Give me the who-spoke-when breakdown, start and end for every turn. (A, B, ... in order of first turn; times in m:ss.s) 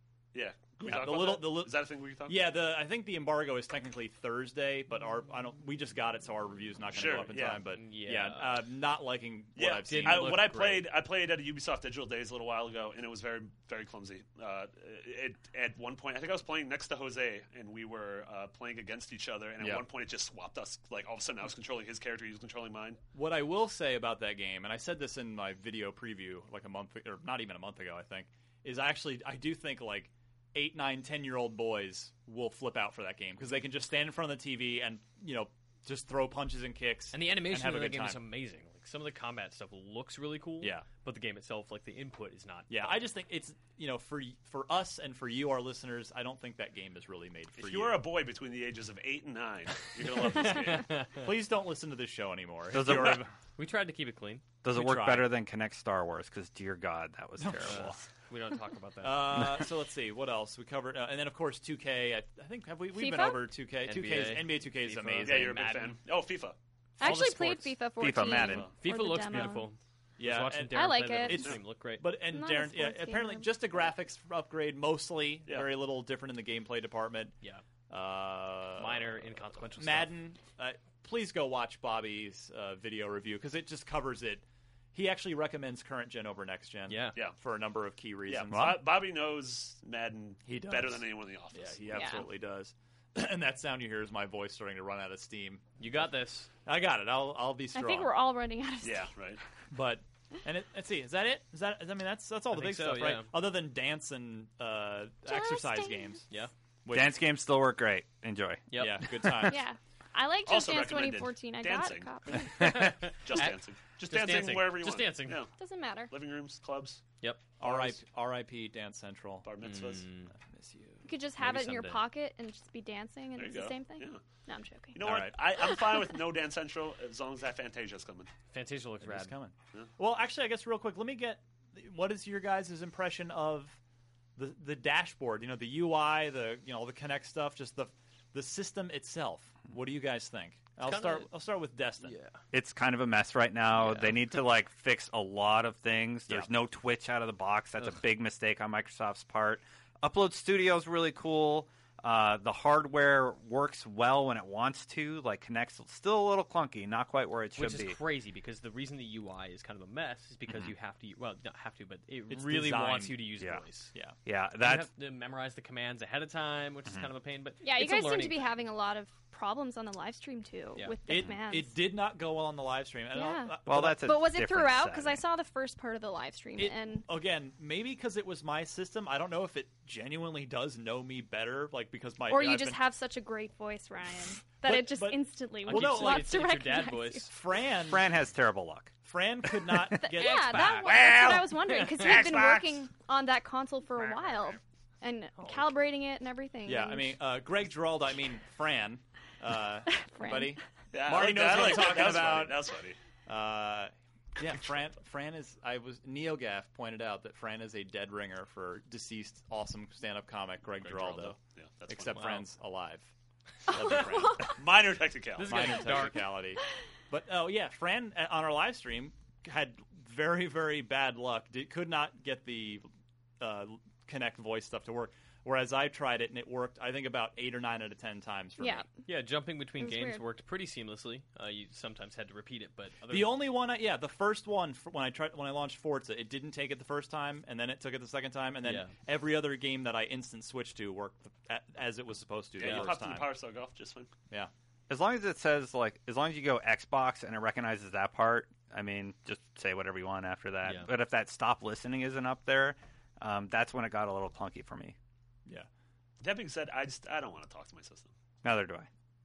0:00.3-0:02.5 A
0:00.8-0:01.8 B
0:02.3-0:10.6 B
0:06.9-0:07.6 A
0:07.7-0:08.6 C
0:09.6-0:23.0 A
0:09.8-0:10.9 C
0:19.6-0:19.9 B
0:23.1-0:38.2 B
0:37.1-0:43.1 C
0:40.6-0:40.9 B
0:42.7-0:48.0 B
0:47.6-0:50.9 A
0:50.4-0:51.3 C
0:51.2-0:53.3 B
0:52.7-0:53.2 D
0:53.6-0:55.3 C
0:54.6-0:58.0 D
0:57.4-0:57.9 B
0:57.6-0:59.6 C
0:59.0-1:05.8 B
1:02.9-1:03.5 E
1:03.8-1:06.0 C
1:05.2-1:06.6 A
1:07.0-1:09.7 E
1:07.0-1:12.1 C
1:08.0-1:08.7 D
1:10.2-1:17.4 B
1:10.7-1:11.5 E
1:12.1-1:13.8 E
1:15.4-1:15.7 A
1:17.9-1:19.2 B
1:18.8-1:20.2 C
1:19.8-1:28.9 B
1:26.9-1:27.3 C
1:28.3-1:32.0 A
1:30.4-1:35.7 B
1:31.9-1:32.3 E
1:35.8-1:36.5 C
1:36.6-1:38.1 B
1:37.7-1:39.1 E
1:38.8-1:39.4 A
1:39.7-1:46.2 B
1:42.5-1:43.3 C
1:45.3-1:46.2 E
1:46.8-1:47.2 B
1:46.9-1:48.7 D
1:48.7-1:49.5 C
1:48.8-1:49.6 B
1:49.5-1:52.8 E
1:50.4-1:55.5 A
1:52.5-1:55.5 C
1:55.5-1:56.1 E
1:56.1-1:57.0 A
1:57.2-1:58.0 C
1:57.6-1:59.5 B
1:59.4-2:00.1 A
1:59.6-2:00.3 C
2:00.4-2:01.0 B
2:01.0-2:05.0 E
2:01.4-2:02.1 C
2:03.4-2:04.2 A
2:04.9-2:08.3 A
2:05.0-2:05.4 B
2:08.5-2:09.4 C
2:09.0-2:13.8 B
2:14.4-2:22.1 B
2:20.8-2:21.3 C
2:22.0-2:22.4 C
2:22.5-2:38.0 D
2:23.8-2:24.1 C
2:37.6-2:43.9 C
2:40.5-2:40.7 D
2:42.3-2:43.4 B
2:43.4-2:43.6 D
2:44.2-2:44.9 D
2:44.6-2:48.6 C
2:47.6-2:51.8 E
2:51.1-2:54.2 B
2:53.1-2:57.1 E
2:53.6-2:55.2 D
2:56.6-3:02.8 B
3:02.3-3:07.3 E
3:04.6-3:06.4 B
3:05.6-3:07.3 C
3:07.3-3:08.1 B
3:07.9-3:08.9 D
3:09.0-3:12.9 B
3:10.0-3:17.2 E
3:10.2-3:12.3 C
3:16.6-3:22.7 B
3:19.9-3:20.6 E
3:20.9-3:23.0 A
3:23.3-3:31.4 B
3:30.8-3:32.3 A
3:31.9-3:33.1 B
3:32.1-3:32.5 C
3:33.7-3:34.5 B
3:34.5-3:35.9 A
3:35.4-3:36.4 C
3:35.4-3:42.9 B
3:43.4-3:48.9 B
3:48.6-3:49.0 E
3:49.1-3:53.5 C
3:49.8-3:50.2 E
3:53.1-4:03.3 B
3:58.6-3:59.0 C
4:02.6-4:04.1 A
4:02.6-4:02.9 C
4:04.9-4:15.0 D
4:10.6-4:10.9 C
4:16.2-4:18.1 A
4:18.4-4:18.9 D